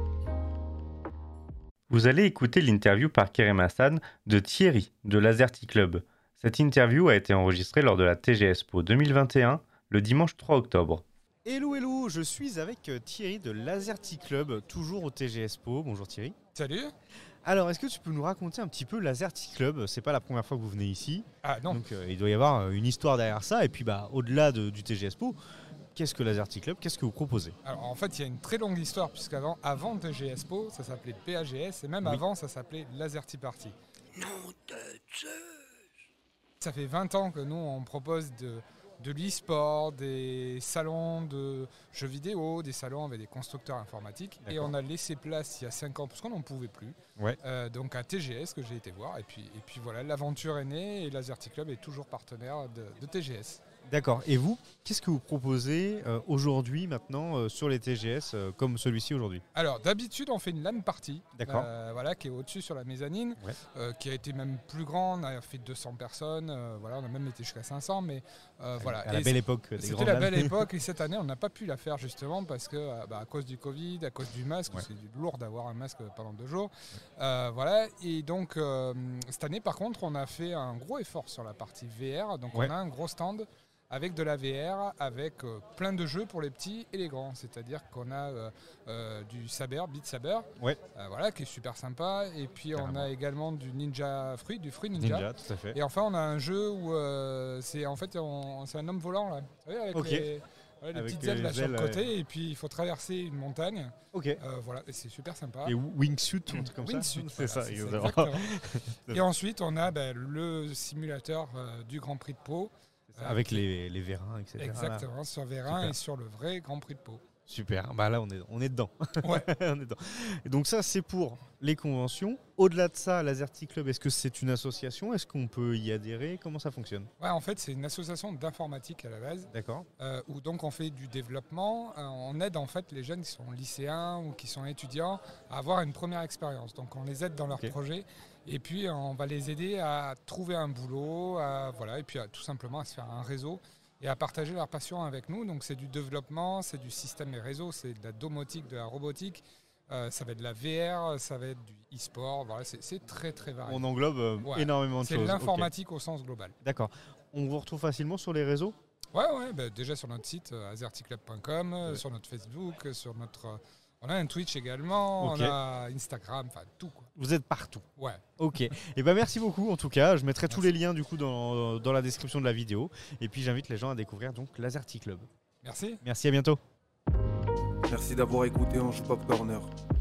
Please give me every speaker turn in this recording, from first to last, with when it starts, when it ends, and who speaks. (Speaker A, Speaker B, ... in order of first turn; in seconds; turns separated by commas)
Speaker A: 1.9-11.0, Speaker B: 11.4-16.3, Speaker C: 16.5-16.9, Speaker B: 17.4-25.4, Speaker C: 21.4-21.9, Speaker B: 25.9-27.5, Speaker C: 27.6-33.7, Speaker D: 34.2-34.5, Speaker C: 36.6-53.6, Speaker B: 44.4-44.7, Speaker B: 53.9-59.4, Speaker C: 59.5-105.8, Speaker B: 61.3-61.7, Speaker B: 68.8-70.6, Speaker B: 92.7-93.1, Speaker B: 95.0-95.8, Speaker B: 99.9-100.3, Speaker B: 100.9-102.1, Speaker B: 104.1-104.4, Speaker B: 105.6-109.2, Speaker C: 106.5-108.5, Speaker C: 109.1-113.6, Speaker B: 113.1-115.1, Speaker C: 114.6-117.2, Speaker B: 115.7-116.0, Speaker B: 117.5-127.1, Speaker C: 119.2-119.5, Speaker C: 127.2-153.9, Speaker B: 129.5-129.9, Speaker B: 153.7-155.7, Speaker C: 154.4-156.5, Speaker B: 156.6-158.8, Speaker C: 159.1-167.1, Speaker B: 165.2-165.6, Speaker B: 167.2-167.8, Speaker C: 168.0-168.2, Speaker B: 168.4-175.3, Speaker C: 175.6-176.0, Speaker B: 176.0-176.6, Speaker D: 177.9-179.7